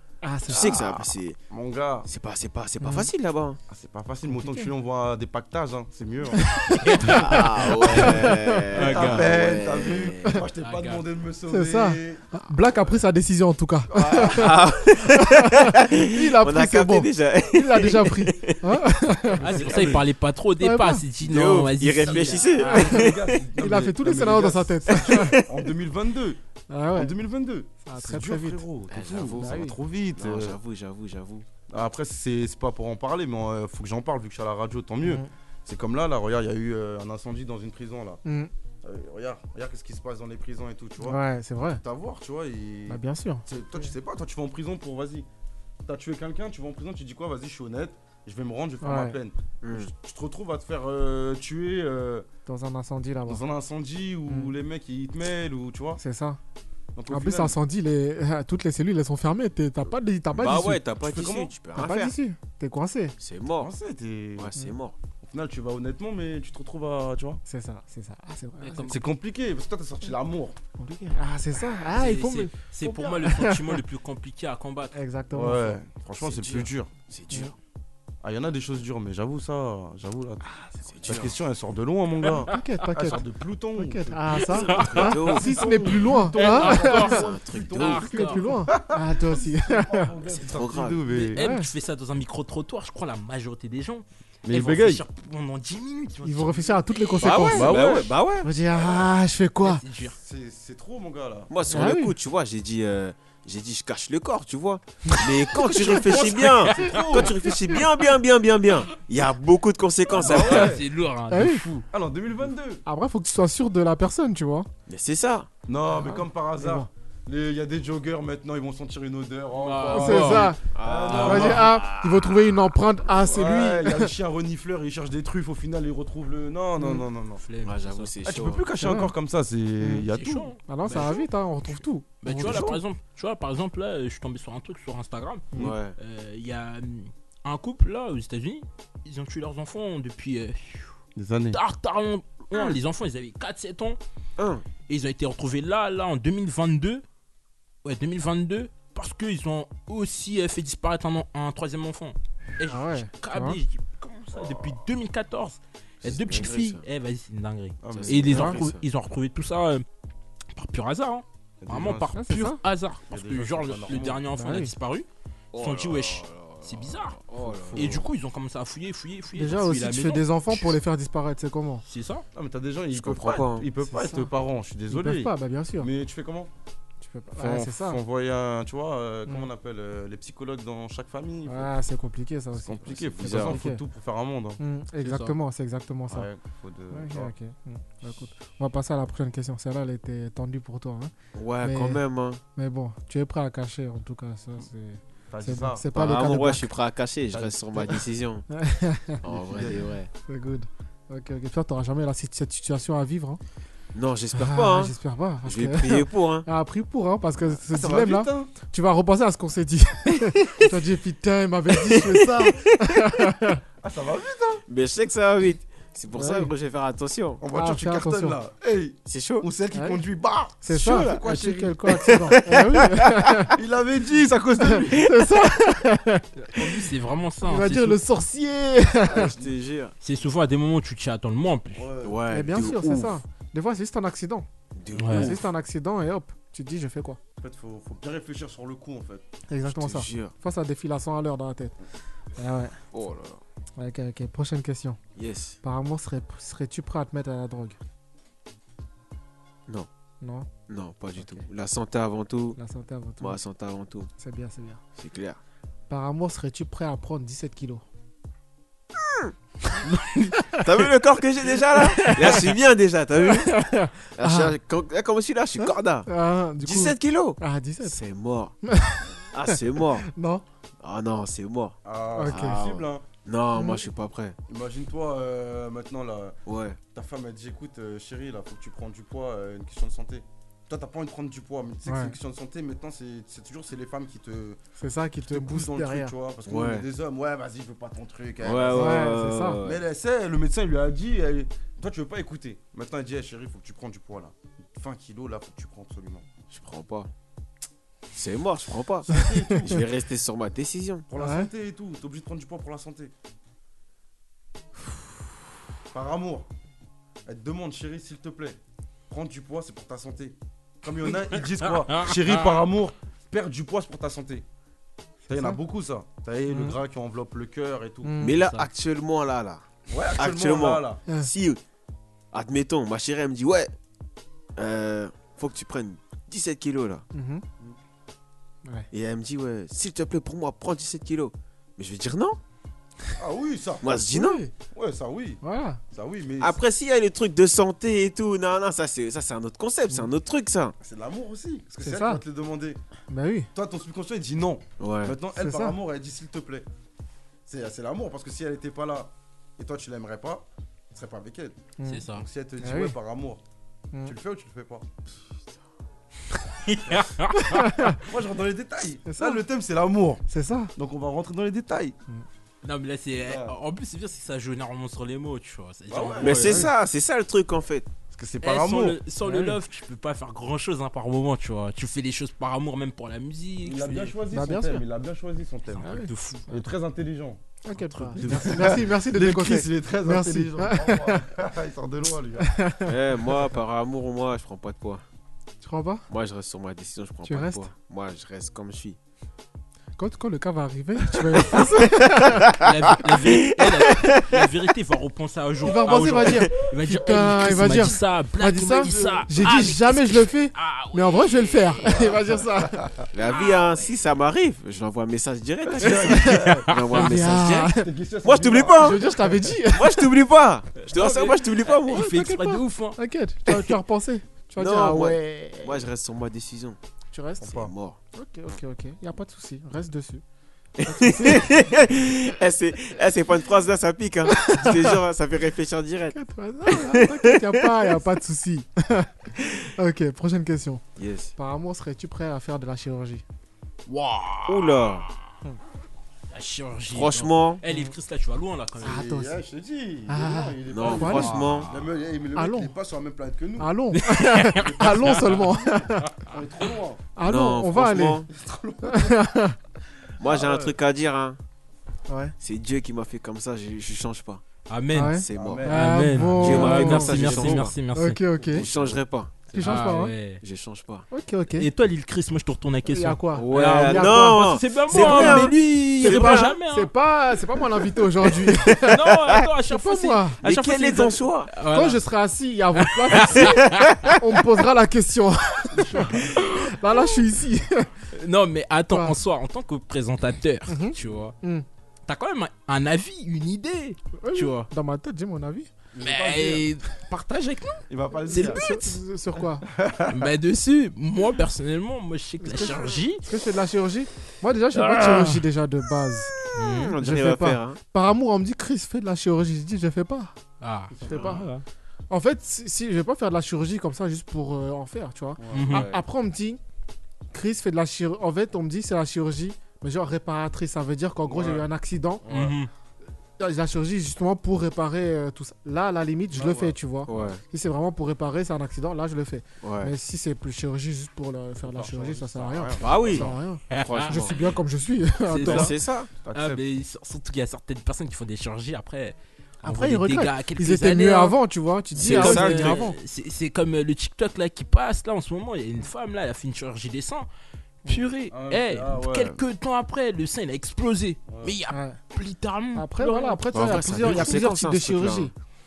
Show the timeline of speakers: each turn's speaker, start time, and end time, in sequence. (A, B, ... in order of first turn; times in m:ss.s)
0:00.2-0:01.0 A
0:00.5-0:01.4 B
0:01.5-0:02.1 C
0:02.0-0:03.6 B
0:02.8-0:03.1 A
0:03.7-0:06.7 C
0:04.3-0:04.7 A
0:06.4-0:07.2 A
0:06.7-0:08.1 D
0:07.0-0:10.2 B
0:07.9-0:08.6 A
0:08.7-0:09.4 D
0:08.7-0:12.2 C
0:10.6-0:11.0 D
0:11.5-0:19.7 A
0:13.9-0:18.8 B
0:19.3-0:20.0 C
0:19.4-0:22.5 D
0:20.6-0:21.0 A
0:21.2-0:23.4 B
0:22.0-0:26.4 C
0:22.6-0:25.4 A
0:24.9-0:25.7 B
0:26.7-0:27.1 A
0:26.9-0:30.6 C
0:27.8-0:28.6 A
0:28.9-0:31.4 B
0:29.4-0:29.8 A
0:31.7-0:38.2 C
0:35.0-0:35.3 A
0:38.2-0:38.5 A
0:38.8-0:45.3 C
0:41.0-0:41.8 A
0:42.9-0:43.9 A
0:45.8-0:52.3 C
0:48.8-0:49.2 A
0:49.6-0:49.9 B
0:52.4-0:53.4 A
0:53.3-0:56.0 C
0:54.3-0:54.5 A
0:56.0-0:56.4 A
0:57.0-0:57.6 C
0:57.1-1:00.8 A
1:00.3-1:02.2 B
1:01.0-1:01.5 C
1:01.8-1:03.2 A
1:03.2-1:03.7 B
1:03.6-1:04.5 C
1:04.4-1:05.0 B
1:05.2-1:07.4 C
1:07.4-1:09.0 A
1:08.6-1:09.0 D
1:08.9-1:10.6 C
1:10.8-1:12.5 A
1:11.9-1:15.0 D
1:12.8-1:13.2 C
1:13.2-1:13.8 A
1:14.9-1:15.8 A
1:15.3-1:16.9 C
1:16.2-1:17.5 B
1:18.2-1:20.4 C
1:20.8-1:21.3 B
1:21.0-1:31.4 C
1:22.3-1:22.6 D
1:22.5-1:23.2 A
1:23.8-1:27.2 A
1:24.4-1:25.7 B
1:24.5-1:25.4 D
1:26.3-1:28.6 D
1:27.0-1:28.1 B
1:28.0-1:30.1 A
1:30.3-1:31.1 B
1:31.1-1:37.9 D
1:31.4-1:31.7 A
1:34.4-1:35.0 C
1:36.2-1:37.7 A
1:37.2-1:38.5 B
1:37.3-1:38.2 C
1:38.4-1:39.8 A
1:39.6-1:40.2 D
1:40.1-1:41.5 C
1:41.5-1:50.8 B
1:41.7-1:42.1 A
1:45.1-1:45.9 A
1:45.6-1:47.3 D
1:46.8-1:47.4 C
1:50.1-1:50.8 C
1:50.1-1:51.8 D
1:51.3-1:51.7 A
1:51.9-1:52.8 C
1:52.8-1:54.7 A
1:54.9-1:55.5 B
1:55.7-2:01.8 C
1:56.0-1:56.9 A
1:59.5-2:01.7 D
1:59.9-2:00.6 A
2:00.7-2:02.6 B
2:01.2-2:04.1 A
2:03.2-2:07.4 C
2:06.8-2:07.0 A
2:07.4-2:08.1 D
2:07.6-2:08.6 B
2:08.2-2:10.5 C
2:08.8-2:09.1 A
2:09.8-2:10.0 A
2:10.1-2:11.3 D
2:10.7-2:12.8 A
2:12.2-2:20.9 D
2:12.4-2:12.8 B
2:15.6-2:16.0 B
2:21.2-2:21.6 C
2:21.5-2:24.0 D
2:24.4-2:24.6 B
2:24.9-2:27.0 D
2:27.8-2:39.8 D
2:32.7-2:33.6 A
2:34.3-2:34.8 C
2:36.0-2:36.8 B
2:37.8-2:38.7 C
2:37.9-2:38.8 B
2:40.5-2:47.2 D
2:41.6-2:42.1 C
2:42.1-2:42.6 A
2:43.1-2:44.2 C
2:44.3-2:44.7 A
2:45.5-2:48.1 B
2:47.4-2:48.0 C
2:47.7-2:50.7 D
2:49.4-2:51.8 A
2:51.8-2:52.2 D
2:52.3-2:56.5 C
2:52.9-2:53.7 B
2:53.8-2:54.3 A
2:54.9-2:55.9 A
2:57.0-2:58.0 A
2:57.4-3:01.7 C
3:01.5-3:03.8 A
3:02.6-3:04.6 C
3:03.2-3:03.6 B
3:04.6-3:06.3 A
3:05.0-3:05.4 D
3:06.1-3:07.3 C
3:06.9-3:12.0 A
3:11.3-3:12.4 B
3:12.6-3:16.7 A
3:15.3-3:15.9 C
3:15.9-3:18.4 B
3:17.3-3:18.0 C
3:18.5-3:19.2 A
3:19.2-3:20.1 B
3:19.2-3:19.9 C
3:20.3-3:23.4 A
3:23.9-3:26.5 B
3:24.3-3:33.6 A
3:27.5-3:28.5 C
3:31.7-3:32.9 B
3:33.8-3:34.6 C
3:34.7-3:37.4 B
3:36.1-3:36.5 A
3:37.4-3:42.1 C
3:37.5-3:38.4 A
3:39.0-3:39.5 B
3:39.7-3:40.0 A
3:40.6-3:43.6 A
3:40.7-3:41.2 B
3:41.9-3:43.4 B
3:43.5-3:45.1 C
3:44.6-3:46.4 A
3:46.5-3:48.0 D
3:47.4-3:49.3 A
3:49.0-3:49.9 B
3:50.0-3:51.9 D
3:51.7-3:52.7 C
3:52.0-3:53.2 B
3:52.3-3:54.5 A
3:54.7-3:55.5 B
3:55.0-3:55.3 D
3:55.1-3:57.2 A
3:57.4-3:59.2 C
3:59.5-4:01.7 A
3:59.6-4:00.3 B
4:02.4-4:02.8 A
4:02.9-4:03.4 B
4:03.8-4:05.0 A
4:05.2-4:05.6 B
4:05.6-4:07.8 A
4:10.2-4:10.5 A
4:10.7-4:12.6 B
4:11.2-4:11.4 A
4:12.6-4:13.4 A
4:13.2-4:14.1 B
4:14.2-4:14.8 A
4:15.0-4:15.4 B
4:15.9-4:17.8 A
4:19.0-4:19.3 B
4:20.5-4:26.1 B
4:22.0-4:22.4 A
4:23.2-4:24.5 A
4:25.6-4:28.0 A
4:26.6-4:28.5 B
4:28.6-4:30.4 A
4:29.3-4:30.1 B
4:30.8-4:34.4 B
4:31.8-4:33.0 C
4:32.2-4:32.6 A
4:33.5-4:33.8 A
4:34.5-4:36.4 C
4:36.4-4:36.8 B
4:36.9-4:44.6 C
4:41.8-4:42.2 A
4:44.8-4:46.1 A
4:45.2-4:56.3 C
4:46.4-4:46.9 B
4:48.4-4:49.8 B
4:48.7-4:49.6 A
4:56.5-4:57.1 B
4:58.1-5:01.0 B
4:59.0-4:59.9 C
5:01.1-5:03.1 C
5:01.2-5:01.5 A
5:05.9-5:06.5 C
5:07.2-5:08.6 C
5:09.1-5:14.4 C
5:11.6-5:12.6 D
5:15.3-5:15.6 A
5:15.3-5:18.1 C
5:16.5-5:16.8 A
5:18.0-5:18.4 A
5:18.2-5:21.6 B
5:18.3-5:18.7 D
5:19.9-5:21.0 C
5:22.3-5:23.7 B
5:24.6-5:27.0 B
5:27.1-5:27.4 A
5:28.9-5:32.4 B
5:33.2-5:33.9 C
5:33.8-5:34.4 B
5:33.9-5:34.5 A
5:34.7-5:35.4 C
5:35.4-5:35.8 A
5:35.9-5:36.6 C
5:36.4-5:40.7 B
5:40.8-5:42.8 C
5:41.8-5:42.2 A
5:43.1-5:43.5 A
5:43.5-5:46.7 C
5:44.8-5:45.2 B
5:45.3-5:45.8 A
5:47.4-5:53.4 C
5:51.8-5:52.0 A
5:51.8-5:52.3 D
5:52.6-5:53.0 A
5:54.0-5:54.9 C
5:56.7-5:57.8 D
5:57.4-5:58.0 A
5:57.9-6:02.0 C
5:59.0-5:59.4 A
6:00.3-6:00.7 A
6:02.6-6:06.6 D
6:03.2-6:03.6 C
6:05.9-6:06.7 C
6:06.2-6:07.9 B
6:06.4-6:06.7 A
6:08.1-6:09.0 C
6:08.4-6:14.2 D
6:09.2-6:09.6 A
6:13.6-6:15.9 C
6:14.3-6:14.8 A
6:15.7-6:16.5 D
6:15.8-6:16.1 A
6:16.5-6:17.4 C
6:17.6-6:21.2 A
6:17.7-6:18.8 D
6:18.2-6:22.6 C
6:22.4-6:22.9 A
6:22.8-6:25.0 B
6:25.6-6:26.1 A
6:26.1-6:29.0 B
6:27.2-6:27.7 A
6:30.0-6:32.5 A
6:31.1-6:34.4 B
6:32.4-6:42.1 D
6:35.6-6:42.9 A
6:38.7-6:39.3 C
6:41.8-6:43.0 C
6:43.1-6:49.1 B
6:45.7-6:46.8 C
6:46.1-6:46.4 A
6:46.2-6:47.0 D
6:46.9-6:47.9 A
6:47.6-6:49.5 C
6:48.8-6:50.1 A
6:49.7-6:52.1 B
6:50.8-6:53.0 D
6:51.9-6:55.8 A
6:54.6-6:56.8 B
6:57.1-6:57.5 A
6:57.4-6:57.7 C
6:57.4-6:58.0 B
6:58.1-7:00.2 A
7:00.8-7:06.2 B
7:00.8-7:01.5 A
7:04.3-7:05.0 A
7:06.1-7:09.1 A
7:06.7-7:07.9 B
7:09.8-7:10.8 A
7:11.0-7:11.3 B
7:11.4-7:13.2 A
7:13.9-7:15.1 D
7:14.5-7:15.1 B
7:16.3-7:19.1 D
7:16.9-7:17.6 B
7:17.7-7:17.9 A
7:18.8-7:19.4 A
7:18.8-7:23.8 C
7:20.1-7:21.4 A
7:20.6-7:21.7 B
7:21.0-7:21.9 D
7:22.3-7:22.7 A
7:23.6-7:26.1 A
7:23.9-7:25.5 D
7:24.5-7:27.0 C
7:27.2-7:28.2 A
7:27.2-7:28.3 B
7:28.3-7:29.2 C
7:28.8-7:29.6 A
7:30.2-7:31.4 B
7:30.2-7:30.7 C
7:32.1-7:32.3 A
7:32.4-7:34.4 B
7:34.7-7:38.2 D
7:34.9-7:38.6 A
7:35.0-7:35.7 B
7:35.3-7:37.6 C
7:36.4-7:37.7 B
7:38.3-7:39.0 C
7:38.5-7:39.8 B
7:39.5-7:40.1 A
7:39.6-7:40.4 D
7:40.4-7:41.0 B
7:41.1-7:41.7 A
7:41.6-7:46.9 D
7:42.8-7:49.0 A
7:43.3-7:46.5 B
7:48.7-7:52.0 D
7:49.7-7:50.4 A
7:50.4-7:51.5 B
7:51.7-7:57.9 A
7:52.9-7:54.2 D
7:55.8-7:56.9 D
7:58.1-8:01.3 D
7:58.9-7:59.2 A
8:00.7-8:01.6 A
8:02.1-8:04.7 D
8:04.2-8:05.7 A
8:05.9-8:06.6 C
8:06.0-8:08.8 D
8:07.9-8:08.7 C
8:08.3-8:09.6 A
8:09.4-8:10.3 C
8:10.1-8:13.2 D
8:12.4-8:16.3 A
8:14.8-8:15.4 D
8:16.5-8:17.0 D
8:16.6-8:17.8 B
8:17.0-8:20.3 A
8:20.6-8:21.6 D
8:20.9-8:21.4 C
8:21.1-8:21.4 A
8:22.1-8:26.6 A
8:25.4-8:26.0 C
8:25.5-8:25.9 D
8:27.3-8:32.2 A
8:31.2-8:31.7 C
8:32.2-8:32.6 C
8:32.3-8:32.7 D
8:33.4-8:45.7 A
8:36.3-8:37.3 C
8:37.1-8:37.4 B
8:39.6-8:39.9 B
8:41.6-8:43.4 C
8:42.8-8:44.3 B
8:43.7-8:44.6 D
8:45.3-8:45.8 D
8:45.4-8:46.1 B
8:46.2-8:46.6 C
8:46.3-8:51.4 D
8:49.6-8:53.0 A
8:51.9-8:52.8 B
8:52.0-8:57.3 D
8:57.8-9:04.4 D
8:58.3-8:59.4 C
9:01.3-9:01.6 C
9:01.7-9:02.0 A
9:02.7-9:05.3 A
9:03.5-9:05.3 B